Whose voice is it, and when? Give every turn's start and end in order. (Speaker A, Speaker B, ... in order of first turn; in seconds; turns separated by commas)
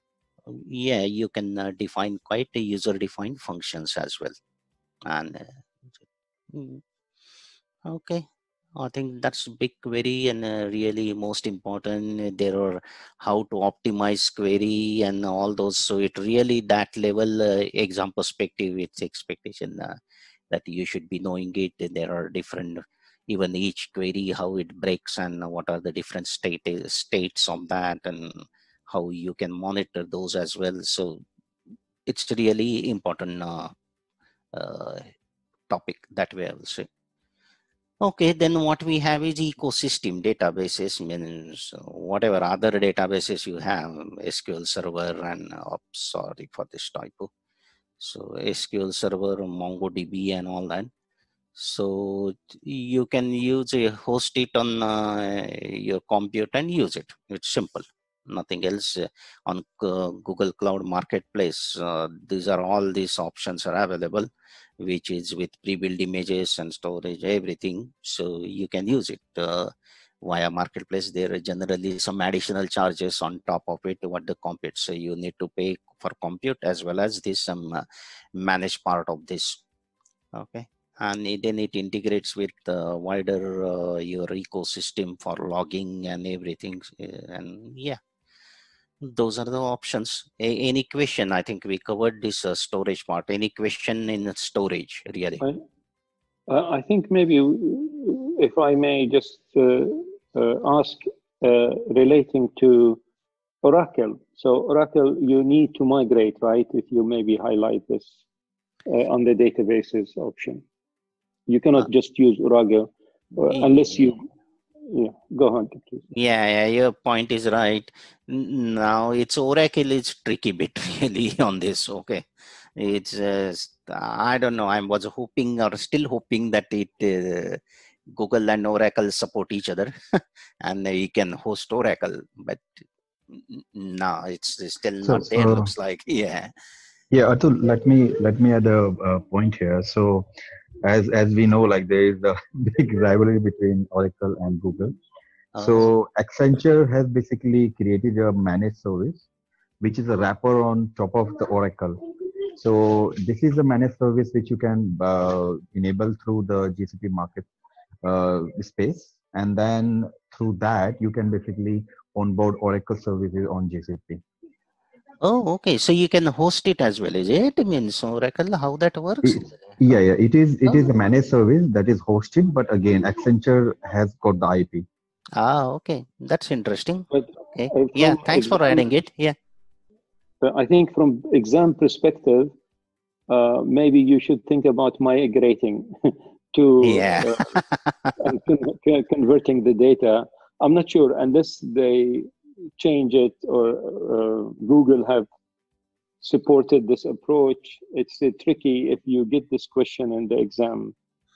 Speaker A: 0.5-4.3, Speaker A: 5.0-5.6, Speaker A: 6.5-6.8, Speaker A: 7.8-8.2, Speaker A: 8.8-20.0, Speaker A: 20.5-31.2, Speaker A: 32.1-33.7, Speaker A: 34.5-35.1, Speaker A: 35.7-36.9, Speaker A: 38.0-47.3, Speaker A: 48.0-50.9, Speaker A: 51.5-64.3, Speaker A: 64.8-69.7, Speaker A: 70.2-79.6, Speaker A: 80.3-88.0, Speaker A: 89.0-95.4, Speaker B: 96.5-103.0, Speaker B: 103.6-108.1, Speaker B: 108.9-110.6, Speaker B: 111.5-114.2, Speaker A: 113.5-114.1, Speaker B: 114.9-116.0, Speaker A: 116.1-122.2, Speaker A: 122.8-132.6, Speaker A: 133.3-136.5, Speaker C: 135.0-135.7, Speaker C: 137.1-140.3, Speaker C: 140.8-144.9, Speaker A: 145.5-145.9, Speaker C: 145.5-149.2, Speaker C: 149.8-152.0, Speaker C: 152.6-157.5, Speaker C: 158.0-164.2, Speaker A: 165.2-169.6, Speaker C: 169.2-174.8, Speaker A: 175.3-179.3, Speaker B: 177.1-178.8, Speaker B: 180.4-182.5, Speaker B: 183.3-187.5, Speaker A: 186.8-188.1, Speaker B: 188.2-195.3, Speaker B: 196.2-200.9